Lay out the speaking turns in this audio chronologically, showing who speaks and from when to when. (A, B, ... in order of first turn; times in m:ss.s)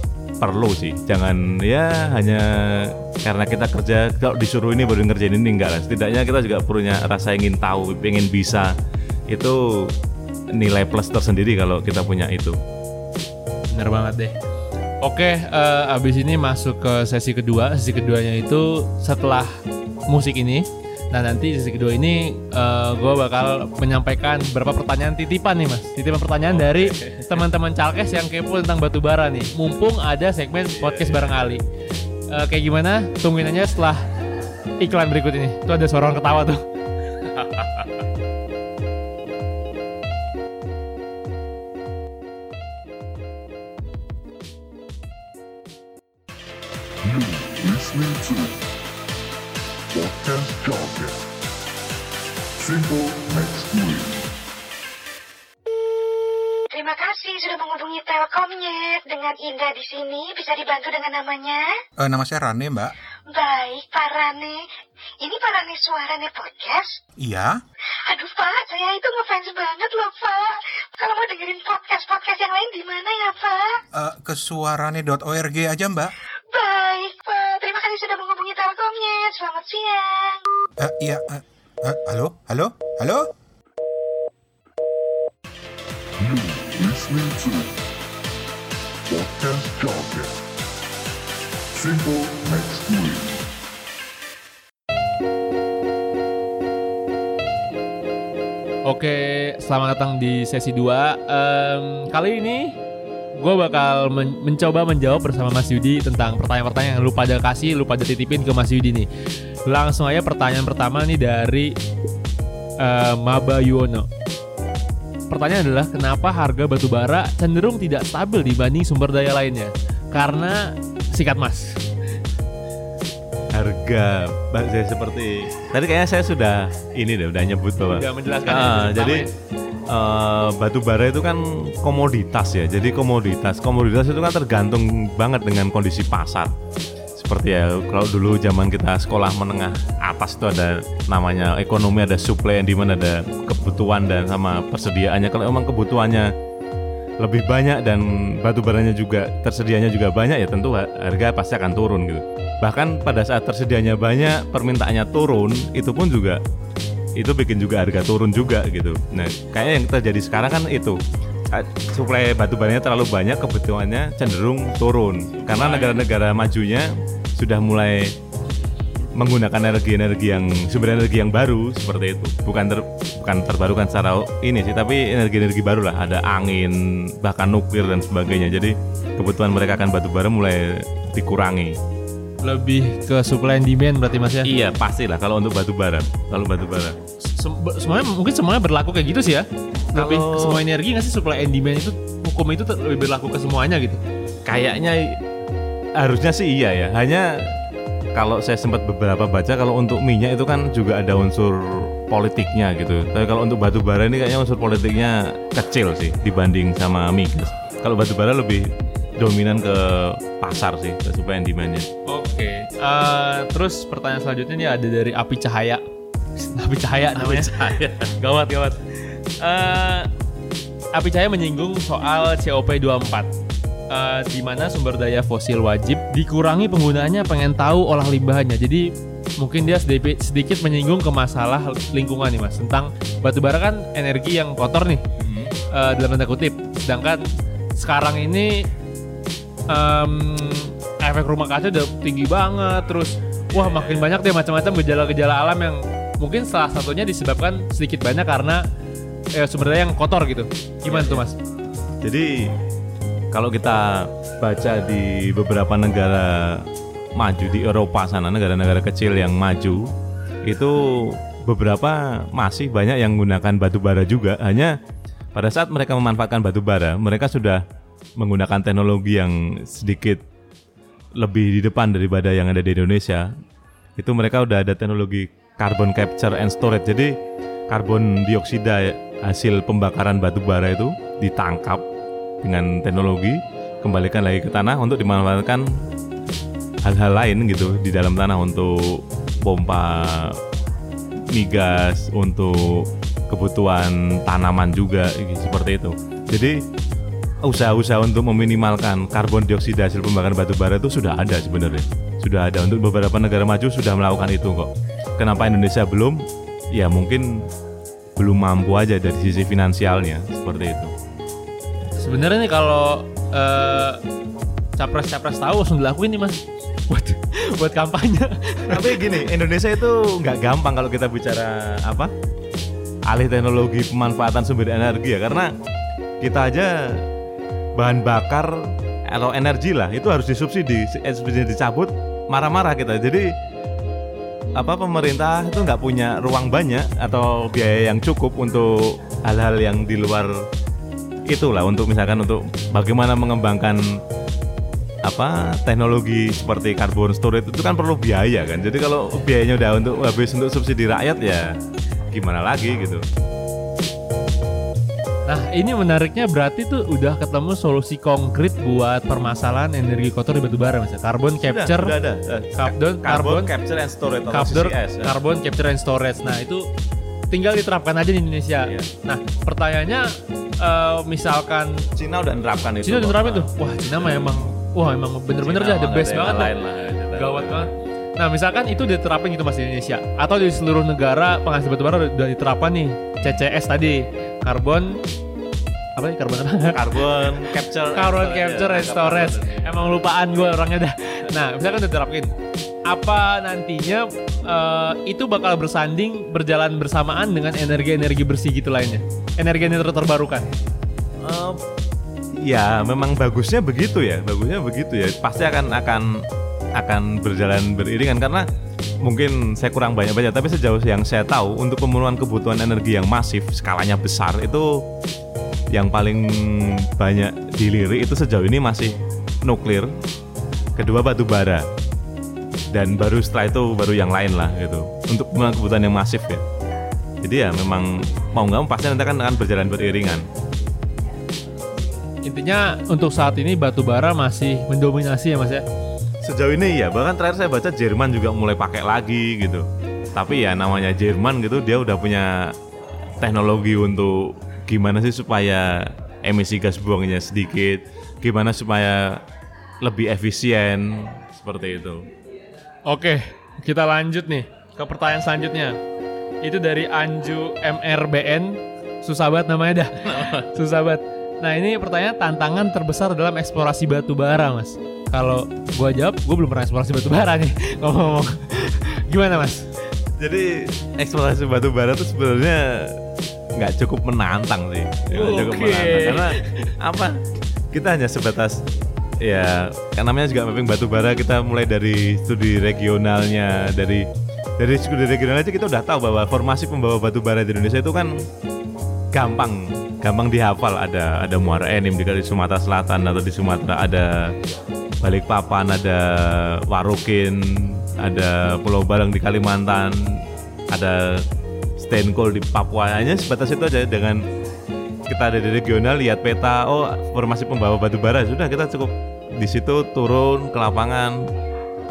0:00.4-0:08.7 A
0:09.3-0:09.9 A
0:10.5-0:12.6 A
0:13.7-0:14.3 B
0:15.0-0:19.6 B
0:20.1-0:31.6 B
0:26.5-0:27.4 A
0:30.8-0:31.5 A
0:32.3-0:34.0 B
0:34.8-0:36.6 B
0:37.3-0:37.9 A
0:47.0-0:48.6 C
0:49.9-0:51.2 C
0:52.6-0:54.2 C
0:56.7-1:01.8 D
1:02.0-1:02.9 E
1:03.3-1:04.7 D
1:05.2-1:07.0 D
1:07.2-1:07.6 E
1:08.1-1:13.8 D
1:13.9-1:16.1 E
1:16.5-1:20.4 D
1:20.8-1:23.3 E
1:26.2-1:27.7 C
1:29.1-1:30.3 C
1:31.7-1:33.4 C
1:38.9-1:42.7 B
1:43.4-1:49.1 B
1:49.7-1:51.8 B
1:52.8-1:54.1 B
1:55.3-2:01.8 B
2:03.5-2:09.3 A
2:07.9-2:09.3 B
2:09.9-2:16.5 A
2:17.2-2:26.3 A
2:27.2-2:36.4 A
2:37.2-2:41.0 A
2:41.5-2:48.1 A
2:45.5-2:46.0 B
2:49.2-3:01.8 A
3:02.4-3:04.5 B
3:04.4-3:07.0 A
3:07.2-3:14.0 B
3:09.9-3:10.6 A
3:14.4-3:15.2 A
3:16.0-3:17.5 A
3:18.1-3:28.7 A
3:29.2-3:31.8 A
3:32.1-3:35.8 B
3:36.4-3:37.5 B
3:37.1-3:38.1 A
3:38.2-3:40.1 B
3:40.9-3:43.3 B
3:43.9-3:55.0 B
3:55.2-3:55.5 A
3:55.7-3:57.2 B
3:57.8-3:58.7 B
3:59.7-4:08.6 B
4:03.5-4:04.1 A
4:09.3-4:11.4 B
4:10.8-4:11.2 A
4:12.0-4:12.5 A
4:13.3-4:19.9 A
4:20.4-4:24.7 A
4:25.3-4:27.6 A
4:28.2-4:30.2 A
4:31.2-4:33.3 A
4:34.0-4:37.1 A
4:37.7-4:41.8 A
4:42.4-4:45.9 A
4:46.8-4:50.4 A
4:51.3-4:56.6 A
4:57.4-5:06.2 A
5:06.7-5:07.4 A
5:08.2-5:10.9 A
5:12.0-5:14.0 B
5:14.8-5:19.0 B
5:18.7-5:22.1 A
5:23.1-5:25.5 A
5:26.2-5:27.0 A
5:27.8-5:33.3 A
5:34.6-5:40.4 A
5:41.3-5:43.9 A
5:45.0-5:51.5 A
5:52.1-5:53.0 A
5:55.3-6:01.9 B
6:01.4-6:05.2 A
6:02.6-6:03.5 B
6:04.3-6:06.7 B
6:07.3-6:11.9 B
6:12.0-6:14.4 A
6:12.8-6:16.5 B
6:15.4-6:17.7 A
6:17.1-6:25.0 B
6:26.0-6:27.0 B
6:26.7-6:30.0 A
6:27.9-6:32.3 B
6:32.9-6:40.5 B
6:41.2-6:41.6 A
6:42.3-6:46.2 A
6:46.8-6:48.4 A
6:49.0-6:54.8 A
6:55.7-6:59.9 A
7:00.8-7:01.6 A
7:02.7-7:06.4 A
7:07.2-7:10.3 A
7:12.2-7:15.6 B
7:16.2-7:22.6 A
7:23.2-7:29.2 A
7:29.8-7:32.1 A
7:32.9-7:35.8 B
7:36.4-7:49.7 B
7:40.0-7:40.6 A
7:50.2-7:53.0 A
7:53.6-7:58.6 A
7:55.1-7:56.7 B
7:59.2-8:04.1 A
8:04.6-8:08.2 A
8:09.1-8:14.3 A
8:15.0-8:21.2 A
8:21.8-8:24.2 A
8:25.1-8:31.3 A